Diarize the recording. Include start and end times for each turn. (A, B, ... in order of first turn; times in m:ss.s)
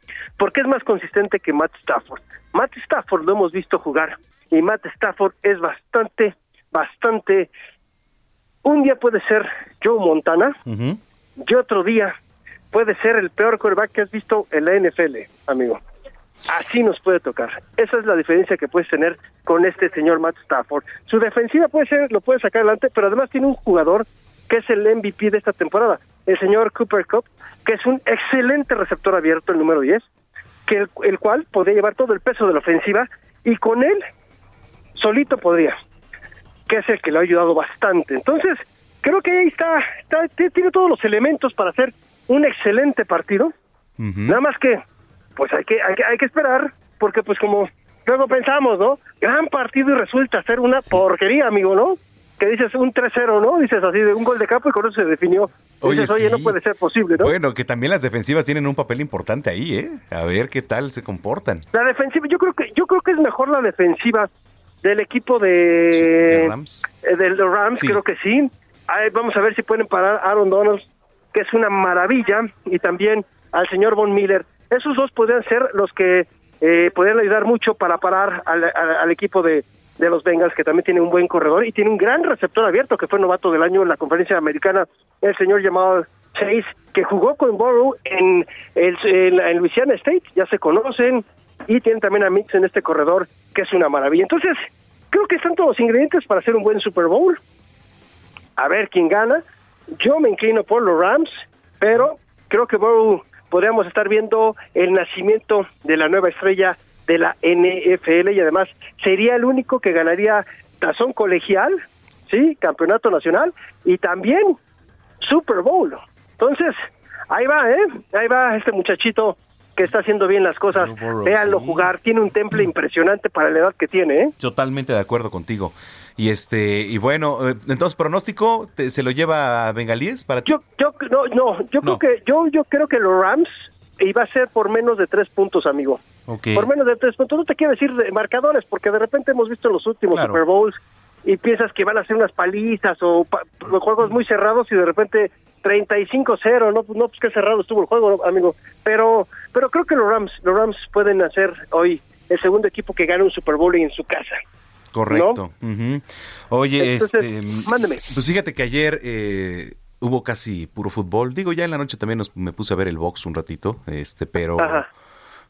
0:00.4-0:07.5 A
0:08.6-0:10.6 A
0:10.7-0:11.0 B
0:11.4-0:12.2 A
0:12.7-0:15.8 A
0:16.5-0:30.0 A
0:30.7-0:34.0 A
0:35.0-0:35.8 A
0:36.7-0:43.5 A
0:44.0-0:44.4 B
0:44.3-0:44.8 A
0:45.4-0:57.3 A
0:55.8-0:56.6 B
0:57.2-1:01.7 B
1:01.7-1:04.3 A
1:04.8-1:06.5 A
1:05.9-1:06.9 B
1:07.1-1:37.4 A
1:38.6-1:39.4 A
1:40.0-1:54.6 A
1:55.2-1:56.8 A
1:57.3-2:04.3 A
2:00.7-2:01.9 B
2:04.4-2:10.5 B
2:10.5-2:16.0 A
2:16.3-2:16.7 B
2:16.6-2:34.4 A
2:20.1-2:20.4 B
2:34.9-2:44.8 B
2:35.1-2:35.4 A
2:36.8-2:38.0 A
2:44.6-2:44.8 A